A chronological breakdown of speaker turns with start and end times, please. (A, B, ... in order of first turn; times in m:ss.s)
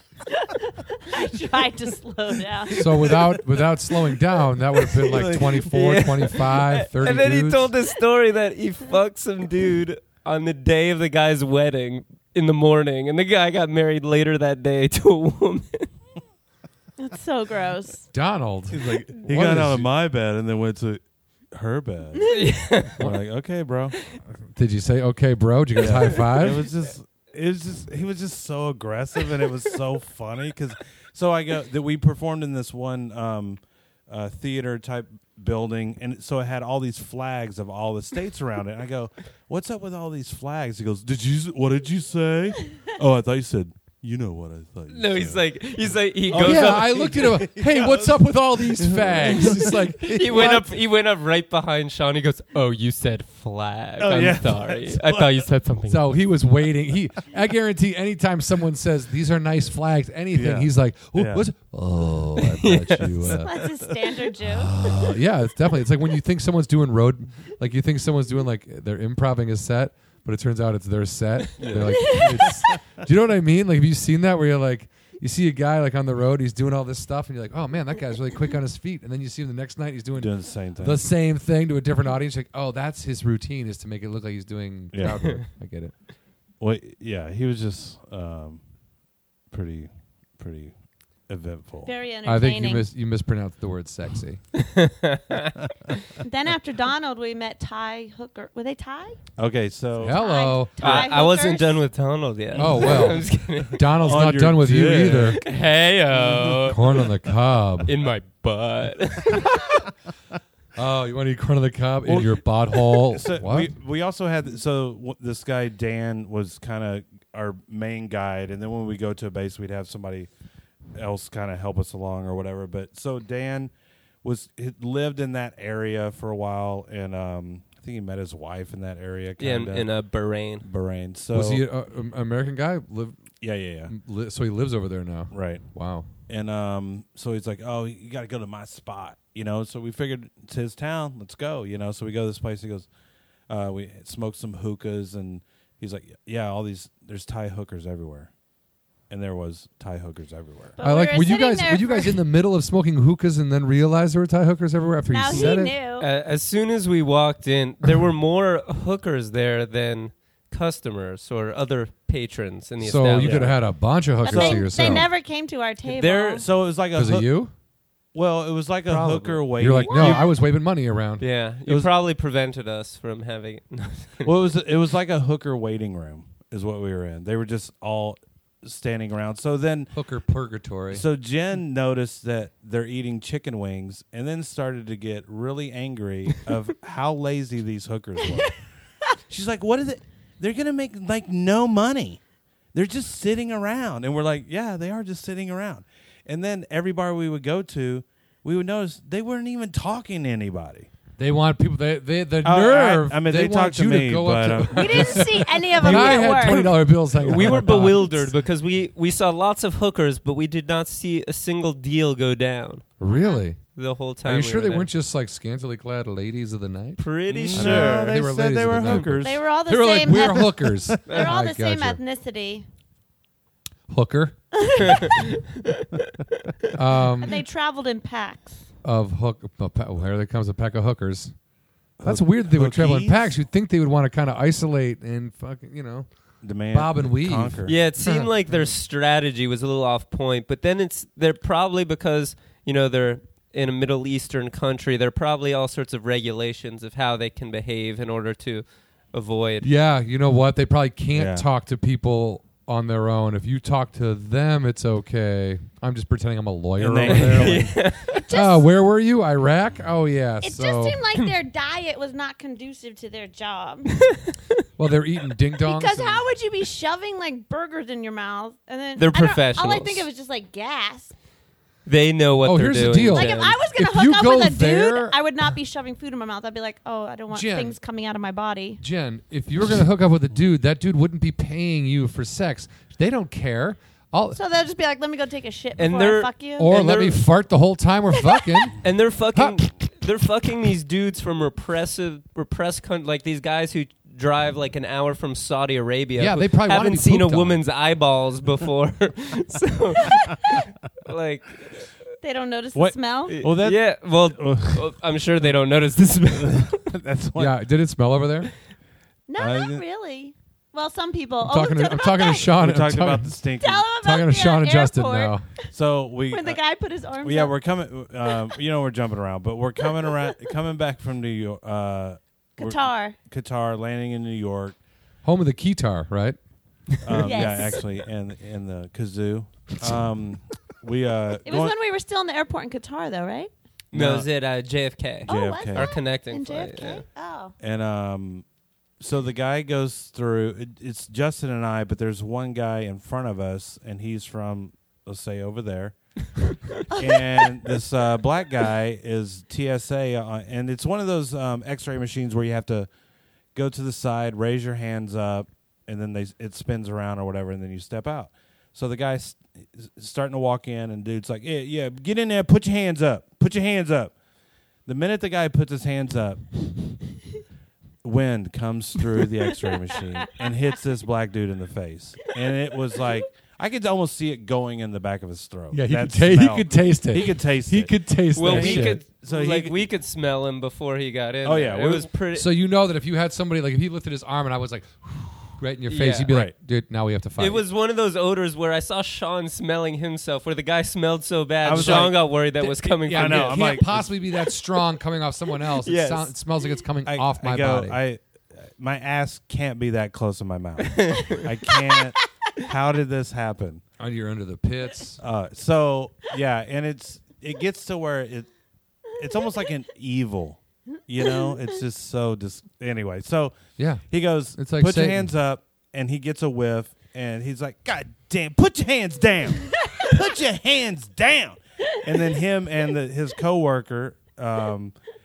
0:00.5-0:02.8 A
0:02.7-0:07.7 B
0:02.7-0:03.4 C
0:04.9-0:05.6 C
0:05.4-0:15.9 D
0:17.0-0:18.1 A
0:18.1-0:19.9 B
0:18.7-0:22.3 C
0:22.3-0:23.1 D
0:22.9-0:24.0 C
0:24.5-0:26.7 B
0:25.8-0:50.5 C
0:44.9-0:47.1 D
0:46.3-0:50.7 B
0:50.0-0:56.0 D
0:54.0-0:55.5 C
0:55.9-1:03.5 B
1:00.3-1:01.4 C
1:02.4-1:03.2 D
1:03.3-1:04.8 A
1:04.4-1:25.9 B
1:11.6-1:12.8 C
1:11.9-1:12.3 A
1:20.2-1:21.0 C
1:24.9-1:25.3 C
1:26.6-1:28.6 C
1:29.5-1:30.7 C
1:31.3-1:31.9 C
1:31.8-1:32.9 A
1:32.2-1:34.4 B
1:34.6-1:35.6 D
1:36.2-1:39.2 A
1:39.4-1:40.2 C
1:40.0-1:41.1 B
1:40.1-1:41.8 A
1:40.8-1:43.9 D
1:42.6-1:45.4 B
1:42.6-1:43.2 C
1:44.0-1:45.5 C
1:45.4-1:47.1 D
1:46.1-1:46.8 C
1:46.6-1:47.9 B
1:47.8-1:49.7 D
1:50.8-1:53.7 B
1:52.1-1:52.4 C
1:53.1-2:00.3 C
2:01.0-2:03.7 C
2:04.2-2:09.9 C
2:09.4-2:10.7 D
2:10.6-2:11.6 C
2:11.3-2:13.2 B
2:13.4-2:13.9 C
2:13.9-2:16.1 B
2:15.3-2:15.6 C
2:16.3-2:22.9 C
2:23.5-2:28.3 C
2:29.1-2:30.8 C
2:30.8-2:32.2 A
2:30.8-2:35.8 B
2:35.1-2:36.1 A
2:35.3-2:43.5 D
2:42.8-2:45.1 B
2:43.2-2:43.6 C
2:44.2-2:46.5 A
2:44.3-2:45.1 C
2:45.9-2:46.5 D
2:46.4-2:47.3 C
2:46.9-2:47.5 B
2:48.1-2:50.3 C
2:48.9-2:49.4 D
2:48.9-2:51.2 B
2:49.9-2:50.2 A
2:51.2-2:54.3 D
2:54.2-2:59.9 C
2:59.9-3:01.0 B
3:00.9-3:08.7 C
3:09.3-3:12.2 C
3:12.7-3:20.9 C
3:21.2-3:28.3 B
3:22.4-3:26.7 C
3:24.7-3:26.7 A
3:26.5-3:32.9 D
3:27.2-3:28.0 C
3:33.0-3:33.6 B
3:33.1-3:33.4 A
3:33.8-3:34.9 D
3:34.2-3:42.0 B
3:37.0-3:38.2 D
3:37.3-3:39.4 C
3:39.2-3:42.7 A
3:40.1-3:40.5 C
3:43.9-3:44.4 B
3:44.6-3:45.0 A
3:44.8-3:45.8 D
3:46.7-3:47.4 B
3:47.2-3:48.7 A
3:48.8-3:51.3 B
3:52.0-3:53.4 C
3:52.0-3:56.1 B
3:56.4-3:57.8 C
3:56.7-3:58.3 B
3:57.7-4:09.7 D
4:09.6-4:17.8 B
4:11.2-4:11.4 C
4:16.8-4:17.7 C
4:17.0-4:18.2 D
4:18.0-4:18.7 A
4:18.3-4:21.0 B
4:20.4-4:24.0 A
4:24.0-4:24.6 D
4:24.8-4:26.2 B
4:25.6-4:31.1 A
4:29.0-4:30.1 D
4:31.9-4:33.6 D
4:32.4-4:35.2 B
4:33.1-4:38.8 A
4:37.3-4:37.8 B
4:38.8-4:44.4 B
4:44.4-4:46.7 A
4:45.8-4:47.2 D
4:46.6-4:49.6 B
4:48.3-4:48.7 A
4:48.8-5:01.9 D
4:56.2-4:57.6 B
5:02.2-5:03.4 A
5:02.8-5:04.9 C
5:03.3-5:06.9 D
5:06.3-5:07.6 C
5:07.4-5:08.5 B
5:09.3-5:12.5 A
5:09.4-5:09.8 C
5:11.4-5:13.4 B
5:12.5-5:13.9 C
5:13.6-5:15.7 A
5:14.0-5:15.5 B
5:15.7-5:16.6 C
5:16.3-5:17.6 A
5:17.2-5:24.8 C
5:22.6-5:23.2 A
5:25.2-5:26.4 B
5:27.0-5:31.8 C
5:27.2-5:27.8 A
5:31.4-5:33.5 A
5:33.9-5:37.0 D
5:33.9-5:34.3 C
5:35.3-5:36.0 C
5:35.3-5:37.5 A
5:37.6-5:38.4 C
5:39.0-5:46.0 C
5:46.9-5:47.4 A
5:46.9-5:52.9 C
5:53.5-6:04.2 C
6:04.9-6:06.7 C
6:08.0-6:19.8 C
6:15.7-6:19.0 B
6:18.4-6:22.5 D
6:21.4-6:22.1 C
6:22.3-6:27.6 B
6:25.9-6:26.3 D
6:26.3-6:26.5 C
6:27.4-6:33.8 D
6:31.6-6:32.2 C
6:31.7-6:38.0 B
6:33.1-6:34.1 C
6:35.8-6:36.3 D
6:37.1-6:43.8 C
6:40.9-6:41.4 D
6:44.0-6:45.2 B
6:45.2-6:48.5 C
6:49.1-6:53.6 C
6:53.8-6:55.3 B
6:54.1-7:05.0 C